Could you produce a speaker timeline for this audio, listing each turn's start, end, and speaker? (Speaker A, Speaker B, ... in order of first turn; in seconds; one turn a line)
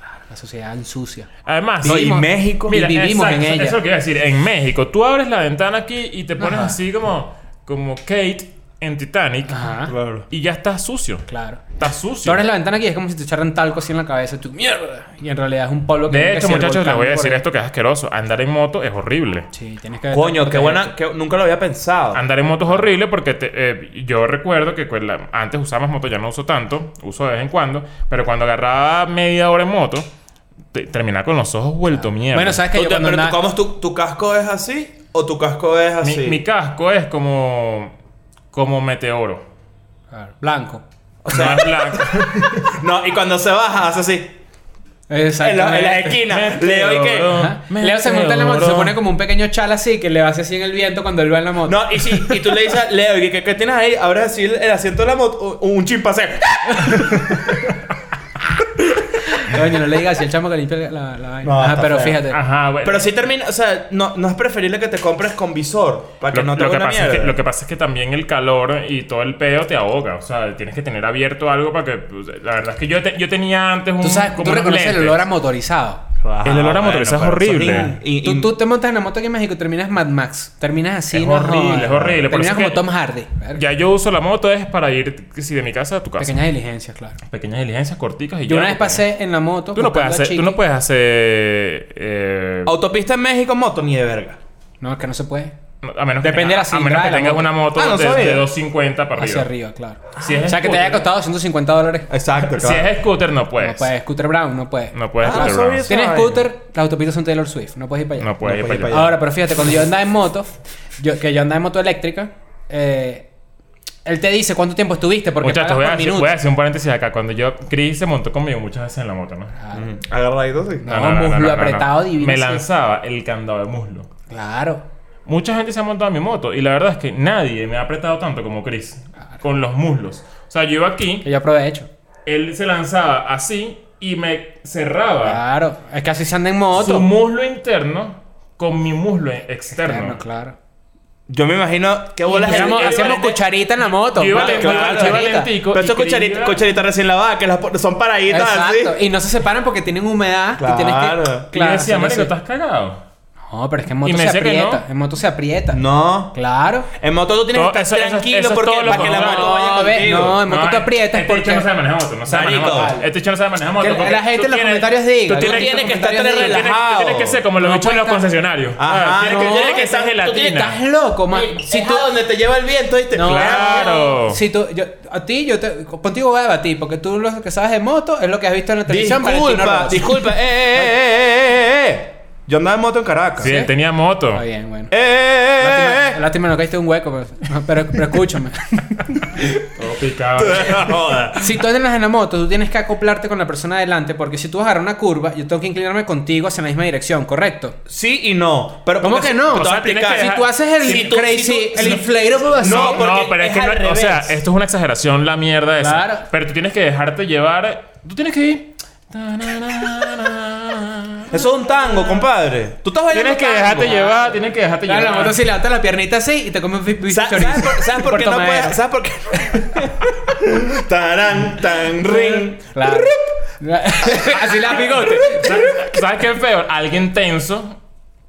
Speaker A: 0.2-1.3
Speaker B: 1.4-9.6
Speaker C: 1.8-2.8
Speaker A: 2.7-3.8
Speaker A: 6.4-6.8
Speaker A: 9.5-9.9
Speaker C: 9.9-10.2
Speaker B: 10.3-12.4
Speaker A: 11.3-17.4
Speaker B: 16.1-19.5
Speaker A: 19.5-20.9
Speaker C: 20.1-22.2
Speaker B: 22.1-30.1
Speaker B: 30.7-32.6
Speaker A: 32.0-33.4
Speaker C: 32.7-36.4
Speaker B: 36.0-37.9
Speaker B: 38.5-39.5
Speaker A: 40.1-40.8
Speaker C: 41.2-44.4
Speaker B: 41.3-42.6
Speaker A: 45.1-46.2
Speaker C: 45.4-47.3
Speaker B: 46.2-49.0
Speaker A: 47.3-52.4
Speaker C: 51.6-57.7
Speaker A: 59.3-62.4
Speaker C: 61.4-62.2
Speaker B: 62.3-63.1
Speaker C: 62.8-67.4
Speaker B: 66.3-75.2
Speaker A: 74.0-76.0
Speaker C: 76.2-78.5
Speaker B: 76.4-77.9
Speaker A: 77.7-83.6
Speaker B: 81.1-82.9
Speaker C: 81.9-82.2
Speaker B: 83.5-86.4
Speaker A: 86.2-87.2
Speaker B: 87.3-89.1
Speaker A: 88.5-90.6
Speaker B: 89.7-92.7
Speaker C: 92.7-94.4
Speaker A: 94.8-95.5
Speaker B: 95.8-99.5
Speaker A: 96.2-97.5
Speaker C: 97.7-98.5
Speaker A: 99.2-102.1
Speaker C: 100.2-100.5
Speaker B: 100.2-101.1
Speaker C: 102.1-102.9
Speaker B: 102.5-103.9
Speaker A: 103.6-113.3
Speaker B: 104.9-105.9
Speaker C: 105.2-106.5
Speaker B: 108.2-109.1
Speaker C: 108.4-109.2
Speaker A: 114.0-116.3
Speaker B: 115.4-119.5
Speaker A: 119.6-119.9
Speaker C: 119.7-121.0
Speaker A: 120.8-122.6
Speaker B: 120.9-124.1
Speaker A: 124.3-124.8
Speaker B: 125.2-131.3
Speaker A: 131.2-131.9
Speaker B: 132.2-135.4
Speaker A: 135.2-137.1
Speaker B: 136.7-140.2
Speaker A: 139.8-140.6
Speaker C: 141.3-143.2
Speaker A: 142.2-145.5
Speaker B: 142.3-146.6
Speaker C: 144.3-149.0
Speaker A: 148.3-152.3
Speaker C: 150.6-151.5
Speaker B: 151.5-153.0
Speaker A: 153.5-155.8
Speaker B: 154.0-154.8
Speaker C: 155.7-156.3
Speaker A: 156.3-156.9
Speaker C: 156.9-160.4
Speaker B: 157.5-159.5
Speaker A: 158.9-161.7
Speaker B: 160.3-170.8
Speaker C: 162.3-163.0
Speaker A: 162.4-163.1
Speaker A: 163.8-166.6
Speaker C: 165.3-167.4
Speaker A: 167.6-168.2
Speaker C: 168.8-170.7
Speaker A: 169.1-172.1
Speaker C: 171.3-174.2
Speaker A: 173.1-180.9
Speaker B: 173.2-174.4
Speaker C: 178.9-183.5
Speaker A: 183.4-183.7
Speaker B: 183.4-184.4
Speaker A: 184.3-184.9
Speaker C: 184.9-186.2
Speaker A: 185.6-189.3
Speaker B: 189.6-190.9
Speaker C: 190.4-191.5
Speaker A: 191.3-197.8
Speaker C: 197.9-202.0
Speaker A: 199.0-203.0
Speaker B: 199.5-200.5
Speaker B: 202.6-211.3
Speaker C: 202.6-204.4
Speaker A: 205.8-206.3
Speaker C: 211.3-214.2
Speaker A: 211.6-212.2
Speaker B: 213.1-215.4
Speaker A: 213.7-218.8
Speaker C: 217.1-223.3
Speaker A: 219.4-219.9
Speaker A: 221.9-225.7
Speaker C: 224.0-225.1
Speaker B: 225.3-227.8